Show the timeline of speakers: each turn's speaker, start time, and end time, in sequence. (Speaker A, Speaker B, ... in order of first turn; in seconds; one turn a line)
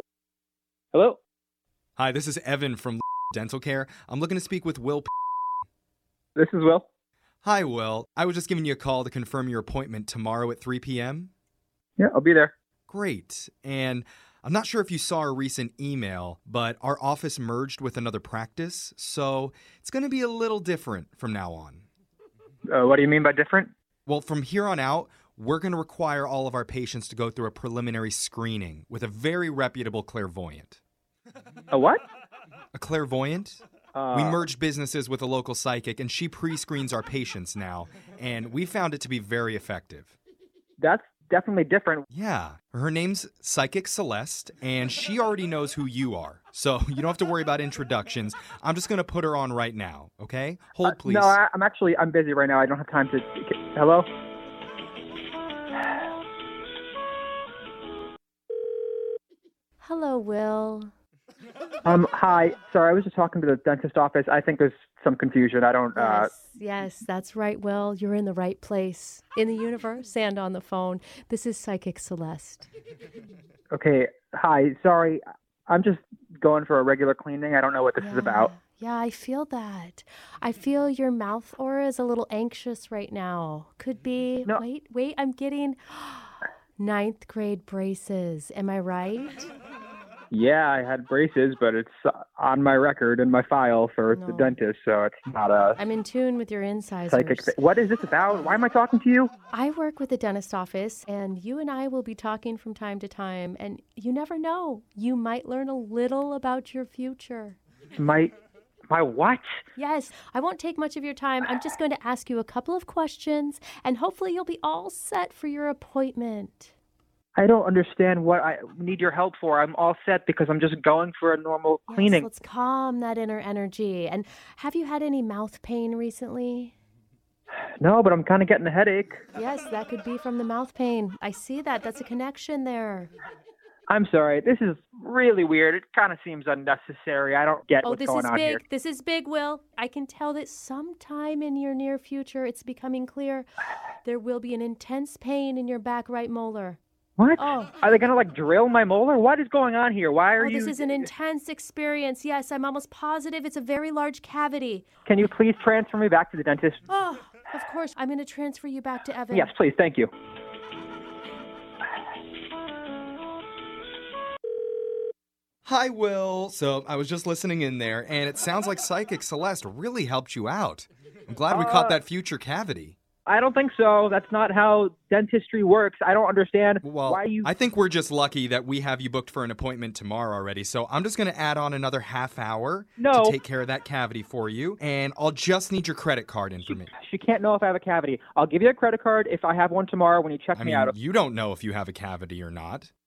Speaker A: 0.9-1.2
Speaker B: 2.0-5.1
Speaker A: 6.4-6.8
Speaker B: 7.4-11.3
Speaker A: 12.0-12.5
Speaker B: 12.9-21.9
Speaker A: 22.7-23.7
Speaker B: 24.1-30.8
Speaker A: 31.7-32.0
Speaker B: 32.7-33.6
Speaker A: 33.9-34.4
Speaker B: 34.1-40.1
Speaker A: 40.8-42.1
Speaker B: 42.1-51.4
Speaker A: 50.9-54.1
Speaker C: 59.8-60.9
Speaker A: 61.9-66.3
Speaker C: 66.0-72.7
Speaker A: 73.7-78.5
Speaker C: 78.0-89.5
Speaker A: 90.3-95.8
Speaker C: 94.1-94.5
Speaker C: 95.8-97.5
Speaker A: 97.1-99.3
Speaker C: 99.5-107.6
Speaker A: 108.0-108.3
Speaker A: 108.9-109.5
Speaker C: 109.8-116.7
Speaker A: 117.4-122.3
Speaker C: 121.9-126.8
Speaker A: 127.8-129.2
Speaker C: 129.3-133.1
Speaker A: 133.9-138.6
Speaker C: 137.8-143.5
Speaker C: 144.0-146.8
Speaker A: 147.2-151.1
Speaker C: 147.4-147.8
Speaker C: 150.4-154.9
Speaker A: 155.1-156.8
Speaker C: 156.9-159.5
Speaker A: 159.3-160.1
Speaker B: 165.7-173.0
Speaker A: 171.5-172.0
Speaker A: 173.3-177.5
Speaker B: 176.8-186.9
Speaker A: 183.0-183.4
Speaker A: 186.7-190.9
Speaker B: 190.6-192.9